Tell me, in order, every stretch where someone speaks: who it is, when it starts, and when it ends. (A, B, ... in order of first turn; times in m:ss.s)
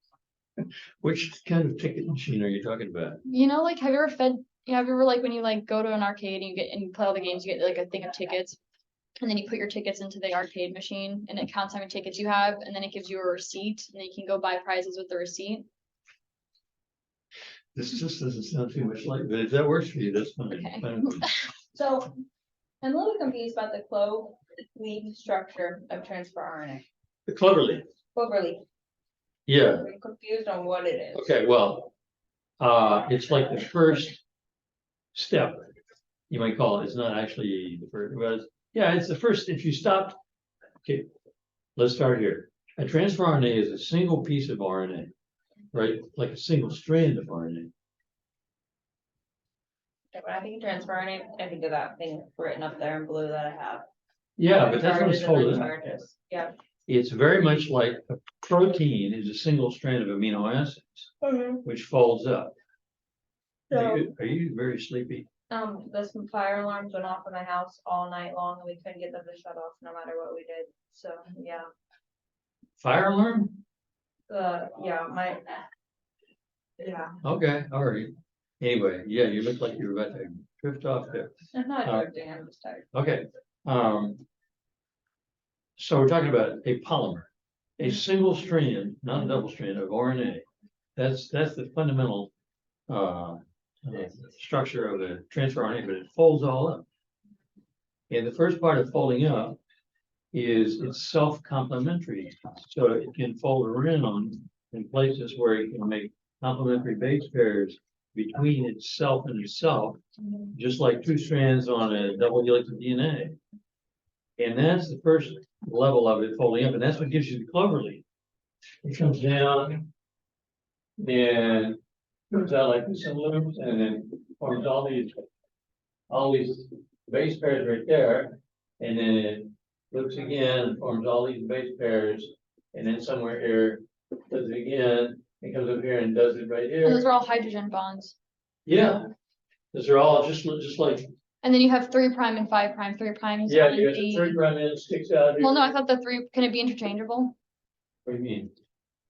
0:00.6-0:03.2 A
0:03.3-0:08.6 B
0:09.2-0:15.7 B
0:17.8-0:21.3 A
0:20.5-0:21.4 B
0:21.7-0:22.1 C
0:22.8-0:26.8 C
0:27.3-0:27.8 A
0:28.1-0:28.6 C
0:29.5-0:29.9 A
0:29.8-0:31.3 C
0:31.1-0:31.9 A
0:32.6-0:34.2 A
0:35.1-0:35.7 A
0:36.3-0:40.2 A
0:41.8-0:45.1 A
0:45.7-0:47.7 A
0:50.1-0:53.8 C
0:54.4-0:55.7 A
0:54.5-0:56.5 C
0:56.9-1:01.1 A
1:01.2-1:01.6 C
1:01.6-1:02.5 A
1:03.7-1:04.0 C
1:03.7-1:05.3 A
1:05.5-1:11.7 C
1:12.8-1:13.6 A
1:14.3-1:15.6 C
1:16.8-1:17.2 C
1:17.2-1:21.3 A
1:21.5-1:22.9 C
1:22.9-1:24.2 A
1:25.8-1:30.4 A
1:31.0-1:32.3 A
1:32.9-1:36.8 A
1:38.1-1:39.6 A
1:40.3-1:50.0 A
1:50.2-1:50.5 C
1:50.5-1:53.4 A
1:54.4-1:58.0 A
1:58.8-1:59.9 A
2:01.0-2:01.8 A
2:02.3-2:05.2 A
2:06.1-2:17.1 A
2:16.8-2:18.2 B
2:18.7-2:19.1 A
2:19.7-2:21.1 A
2:21.4-2:24.4 B
2:23.5-2:25.8 A
2:25.4-2:27.4 B
2:28.0-2:28.5 A